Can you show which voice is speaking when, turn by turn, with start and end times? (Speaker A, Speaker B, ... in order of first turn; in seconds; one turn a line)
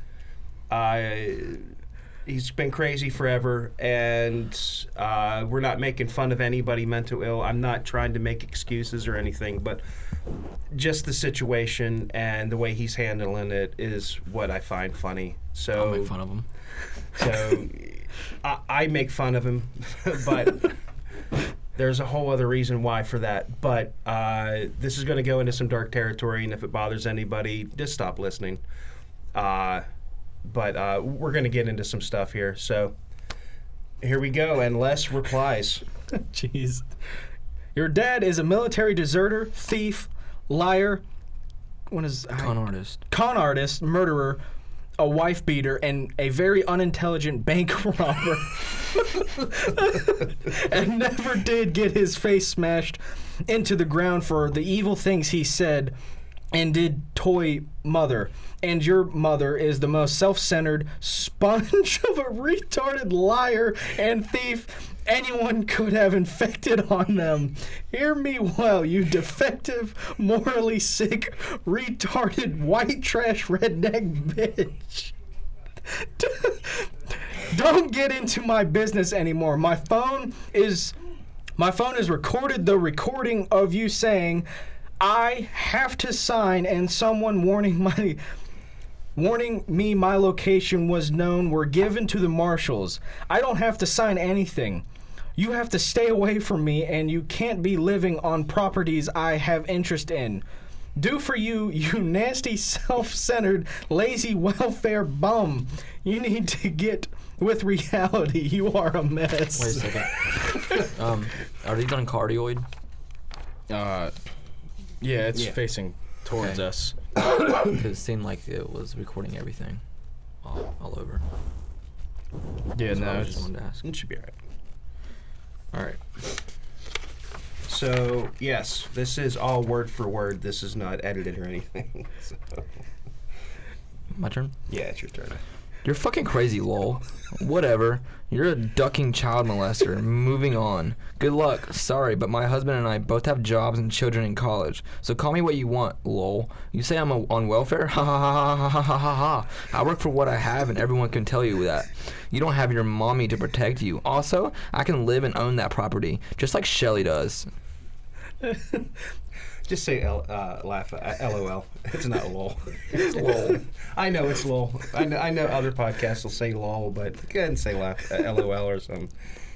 Speaker A: 0.7-9.8
Speaker A: 10.7-16.2
Speaker B: 15.7-16.5
Speaker A: 17.1-20.8
Speaker A: 21.8-28.6
Speaker A: 29.3-29.9
Speaker A: 30.4-33.0
Speaker A: 34.0-35.8
Speaker C: 36.1-36.9
Speaker C: 37.8-41.0
Speaker C: 41.9-42.6
Speaker B: 42.4-43.0
Speaker C: 43.1-44.4
Speaker C: 45.0-56.0
Speaker C: 56.5-75.1
Speaker C: 75.9-80.9
Speaker C: 81.6-84.5
Speaker C: 85.0-88.2
Speaker C: 89.2-94.8
Speaker C: 95.4-100.4
Speaker C: 101.0-109.9
Speaker B: 109.6-112.7
Speaker C: 113.7-114.1
Speaker C: 115.0-117.0
Speaker B: 117.6-119.8
Speaker B: 120.4-121.2
Speaker C: 122.8-123.4
Speaker B: 122.9-123.8
Speaker A: 123.8-124.4
Speaker B: 125.7-126.0
Speaker A: 127.7-132.7
Speaker B: 134.1-134.5
Speaker A: 134.7-135.4
Speaker B: 135.8-157.5
Speaker C: 158.4-158.9
Speaker A: 159.7-169.1
Speaker B: 162.9-163.6